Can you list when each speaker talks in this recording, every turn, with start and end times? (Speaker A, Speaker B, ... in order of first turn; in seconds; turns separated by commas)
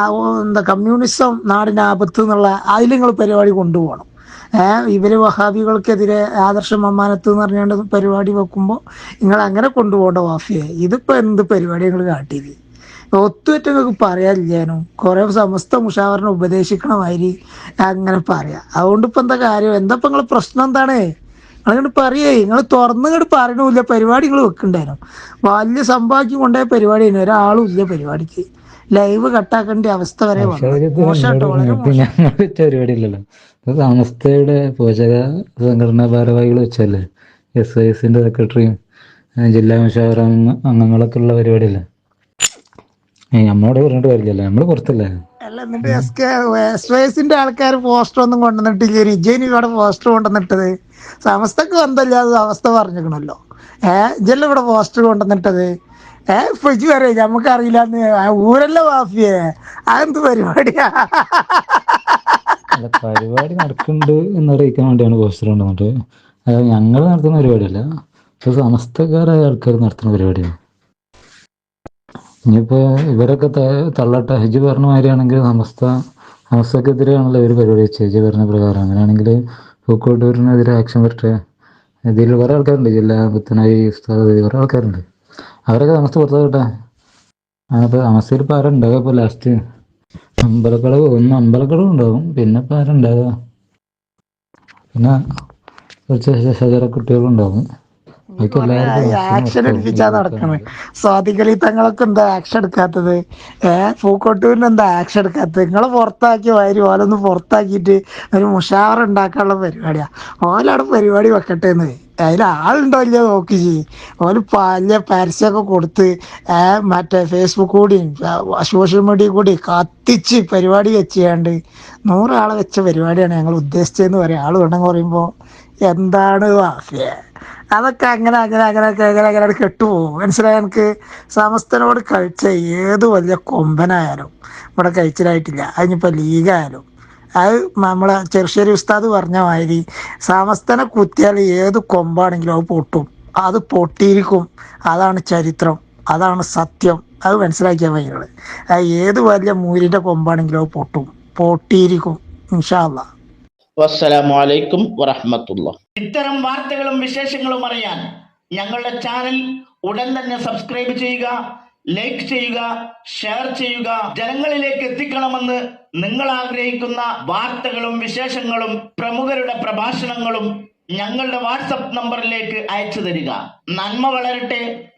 Speaker A: 0.2-4.1, Speaker A: 4.6-12.6, Speaker A: 13.2-21.0, Speaker A: 21.7-32.0, Speaker B: 30.4-37.0, Speaker B: 37.6-38.8, Speaker B: 39.4-41.8, Speaker B: 43.3-45.1, Speaker A: 45.5-50.7, Speaker B: 45.8-46.1, Speaker A: 51.2-53.4, Speaker A: 53.9-55.7, Speaker A: 56.3-59.4, Speaker A: 59.9-61.6, Speaker B: 62.8-65.9, Speaker B: 66.5-67.8, Speaker B: 68.4-70.5, Speaker B: 72.5-75.9, Speaker B: 76.5-79.4, Speaker B: 79.9-81.3, Speaker B: 82.1-85.0, Speaker B: 85.7-86.6, Speaker B: 87.7-89.5, Speaker B: 90.5-93.3, Speaker B: 96.1-97.7, Speaker B: 98.4-100.7, Speaker A: 98.4-121.5, Speaker A: 122.1-125.3, Speaker A: 125.9-127.1, Speaker A: 127.7-136.9, Speaker A: 137.4-153.1, Speaker C: 153.8-158.0, Speaker C: 158.6-161.4, Speaker C: 161.9-174.7